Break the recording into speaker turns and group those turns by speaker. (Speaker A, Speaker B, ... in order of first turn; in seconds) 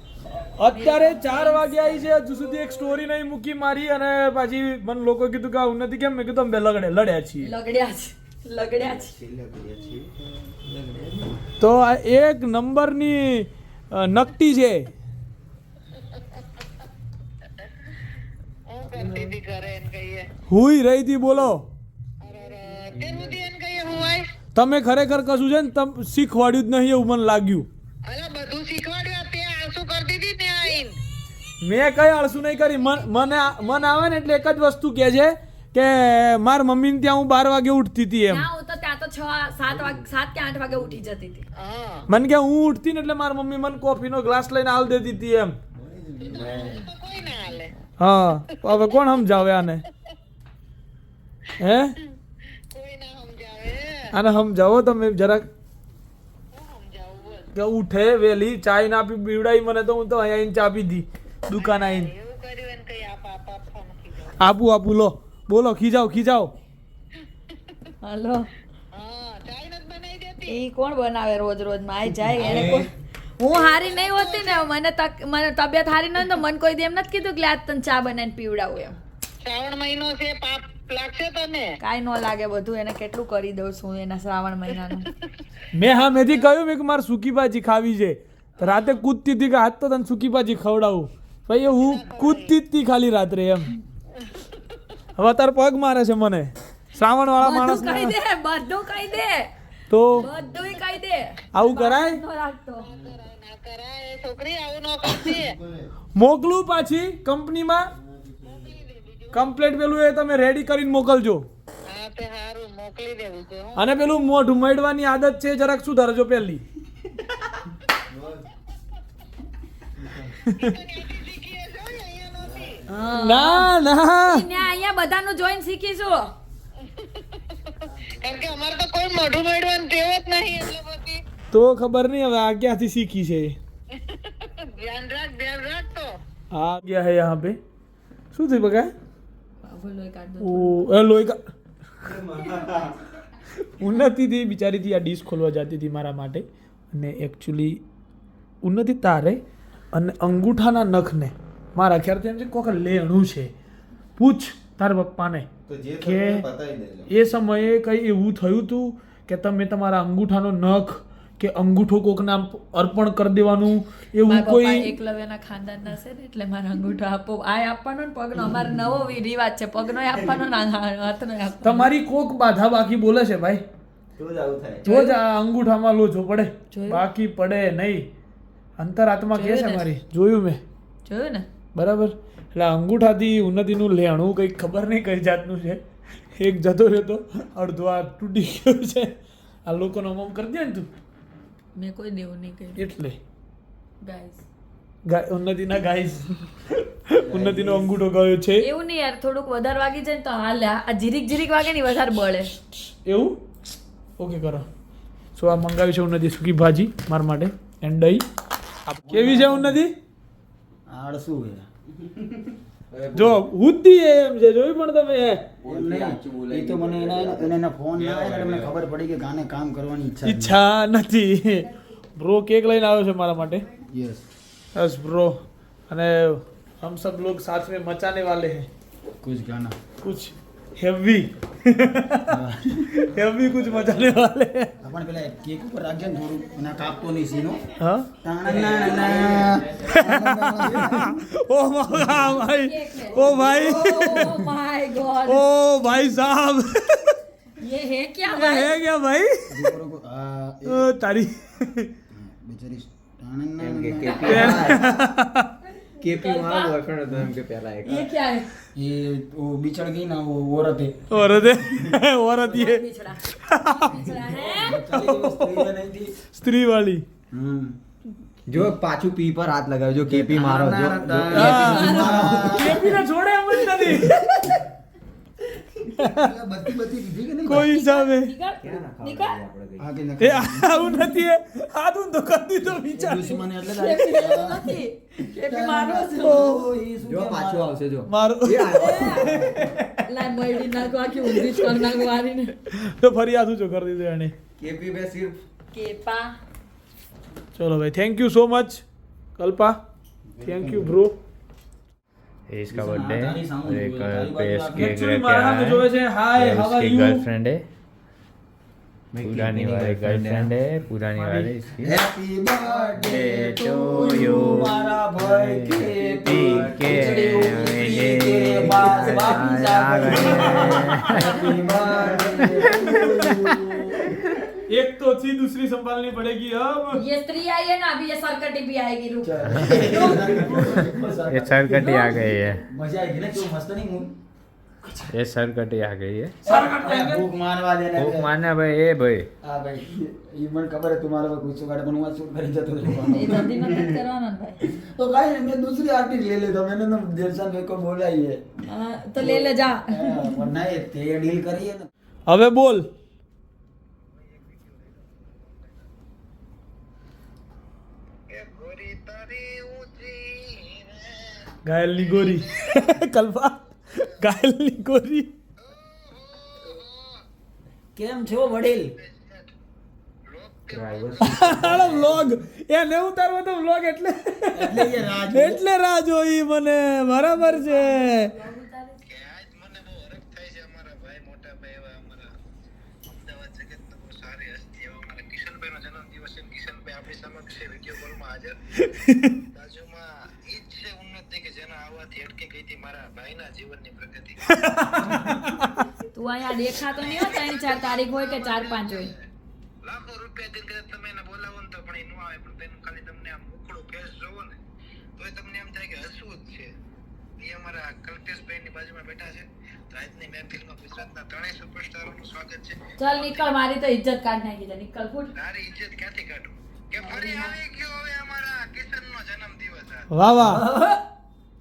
Speaker A: 0.6-7.5, 11.6-14.9, 19.0-19.3, 20.5-21.6, 24.5-27.7, 31.6-38.5, 42.1-45.6, 48.0-49.8, 51.6-52.0, 54.1-55.5, 57.5-62.1, 64.4-66.5, 85.7-93.7, 95.2-98.1, 99.9-100.3, 101.5-102.2, 106.2-107.9, 109.3-111.5, 113.8-116.6, 120.5-120.7, 123.1-124.4, 131.5-133.6, 136.5-137.6, 138.3-138.9, 140.4-141.4, 143.8-147.8, 148.6-149.4, 149.9-153.5, 154.2-155.5, 156.0-156.4, 157.1-164.9, 171.6-173.6, 174.8-178.1, 178.8-180.6, 181.7-185.8, 186.3-189.1, 189.7-190.9, 192.8-193.2, 195.1-196.5, 197.1-198.7, 202.9-203.4, 204.2-204.7, 205.3-208.2, 208.9-209.9, 213.1-215.5, 220.2-223.6, 224.7-228.7, 230.0-232.4, 232.9-234.7, 237.8-238.1, 239.8-244.4, 245.2-247.2, 248.3-249.7, 250.7-251.9, 254.2-255.5, 261.1-264.0, 264.9-265.7, 266.2-267.0, 271.3-274.4, 275.9-276.3, 277.4-278.3, 280.2-283.4, 286.2-286.6, 288.1-290.0, 291.3-291.8, 292.7-294.3, 297.6-298.8, 299.4-299.8, 300.4-301.2, 304.8-307.2, 311.2-311.5, 320.2-320.8, 324.7-327.0, 329.8-330.9, 336.4-337.2, 352.3-352.9, 361.6-365.3, 371.2-378.3, 394.4-395.8, 420.1-420.6
Speaker B: 0.6-2.9, 7.4-9.1, 38.3-41.4, 68.0-68.5, 70.5-79.0, 81.8-85.1, 97.4-99.5, 100.1-102.9, 122.9-123.7, 124.2-126.3, 139.6-140.9, 164.2-171.9, 174.8-175.2, 176.7-177.0, 179.3-179.9, 181.1-181.5, 191.7-192.8, 194.0-194.4, 198.6-202.5, 242.1-245.4, 247.6-248.8, 256.1-256.9, 257.8-258.5, 262.4-265.0, 271.4-272.2, 277.5-279.4, 283.7-286.6, 288.7-289.5, 290.1-292.6, 295.7-296.3, 326.9-329.5, 331.7-332.3, 343.1-344.6, 348.6-350.3, 377.3-379.0, 396.1-399.1, 413.0-415.3, 417.0-417.5
Speaker C: 8.8-10.1, 10.7-11.3, 46.5-46.7, 72.4-72.8, 142.1-142.6, 155.7-157.1, 174.2-174.8, 212.9-213.4, 215.6-218.8, 238.4-239.7, 253.6-254.9, 256.0-258.1, 268.5-272.6, 278.6-279.9, 287.0-289.4, 294.6-295.4, 309.1-310.5, 313.8-314.5, 316.4-323.5, 370.7-372.2
Speaker D: 18.7-20.3, 22.2-24.3, 28.1-31.0, 41.6-42.1, 46.3-47.7, 52.7-54.1, 56.5-57.5, 61.5-64.4, 67.5-67.8, 68.9-70.6, 73.5-74.7, 79.4-81.7, 91.7-92.6, 102.8-105.6, 108.4-109.5, 111.9-113.8, 120.5-122.8, 126.8-131.2, 133.9-136.2, 358.3-361.5, 362.0-362.9, 365.6-367.2, 368.7-369.5, 370.3-371.6, 379.1-382.3, 383.1-388.6, 389.5-394.8, 396.6-399.2, 399.8-404.6, 405.2-406.7, 407.4-413.5, 415.3-420.1
Speaker E: 45.9-46.7, 197.3-197.8, 209.0-209.8, 210.9-211.7, 215.6-220.6, 223.9-224.2, 229.2-229.8, 232.3-233.0, 234.8-237.6, 238.2-241.2, 249.5-250.9, 252.1-254.9, 258.7-261.1, 264.1-266.1, 267.3-267.8, 270.1-272.9, 275.9-277.7, 279.8-280.8, 282.9-284.8, 285.4-287.7, 302.7-304.9, 311.8-324.2, 329.2-332.1, 332.7-334.1, 336.4-338.3, 339.4-344.0, 344.7-348.4, 349.2-351.9, 367.9-368.9, 374.6-375.6, 420.4-421.0
Speaker F: 302.5-307.6, 309.2-311.9, 312.9-321.5, 329.5-329.9, 331.3-332.6, 335.1-336.4, 338.0-339.3